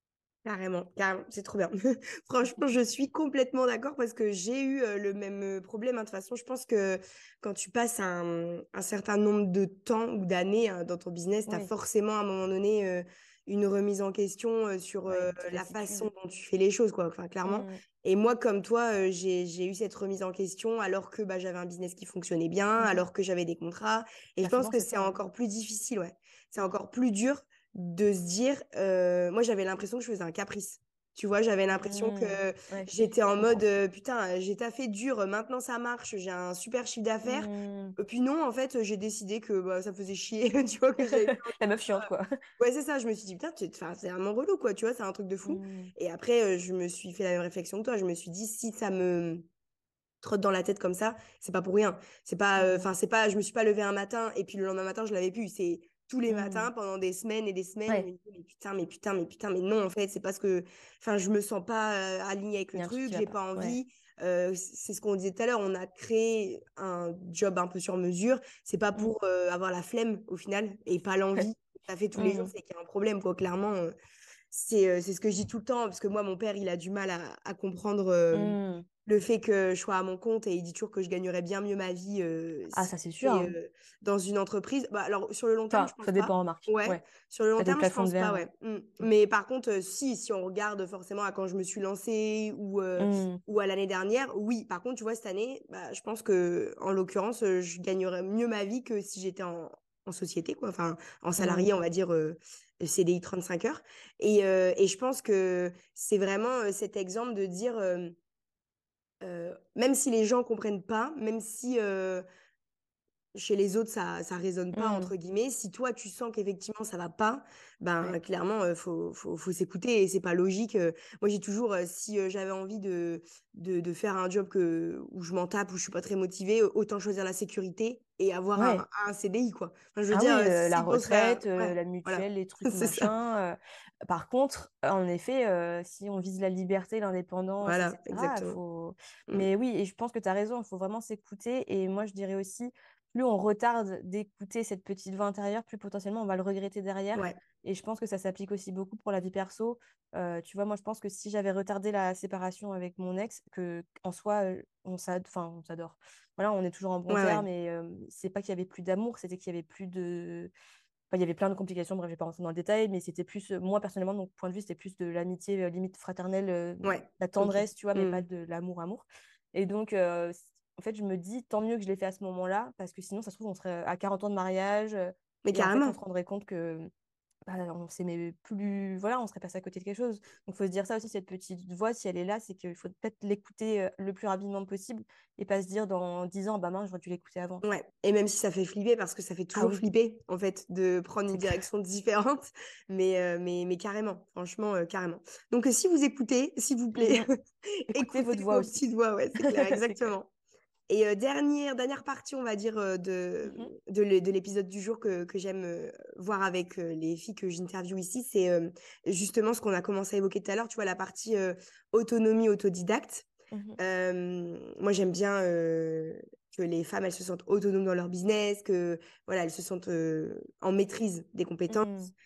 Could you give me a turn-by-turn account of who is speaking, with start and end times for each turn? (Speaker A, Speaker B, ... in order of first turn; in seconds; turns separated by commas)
Speaker A: 0.5-49.5, Speaker B: 15.1-16.1, Speaker B: 17.5-17.8, Speaker B: 22.8-23.1, Speaker B: 24.4-25.2, Speaker B: 31.8-33.6, Speaker B: 37.3-38.0, Speaker B: 41.1-42.3, Speaker B: 45.5-45.9, Speaker A: 50.2-73.9, Speaker B: 52.6-52.9, Speaker B: 56.3-56.7, Speaker B: 62.8-63.8, Speaker B: 72.2-72.5, Speaker A: 74.5-108.2, Speaker B: 78.3-78.9, Speaker B: 82.7-83.6, Speaker B: 85.7-87.0, Speaker B: 87.6-88.4, Speaker B: 93.0-93.4, Speaker B: 101.4-101.7, Speaker A: 109.2-112.2, Speaker A: 113.3-133.1, Speaker B: 114.8-115.1, Speaker B: 128.6-128.8, Speaker B: 130.1-160.5, Speaker A: 137.6-138.6, Speaker A: 157.1-157.4, Speaker B: 161.1-176.9, Speaker A: 166.8-168.2, Speaker A: 175.4-176.0, Speaker B: 177.5-187.6, Speaker A: 187.6-197.3, Speaker B: 189.6-189.8, Speaker B: 191.3-191.6, Speaker B: 197.0-197.3, Speaker B: 197.9-198.7, Speaker A: 197.9-200.3, Speaker B: 199.4-200.1, Speaker A: 200.9-213.3, Speaker B: 203.4-203.7, Speaker B: 213.5-213.8, Speaker A: 213.8-221.9, Speaker B: 221.7-222.1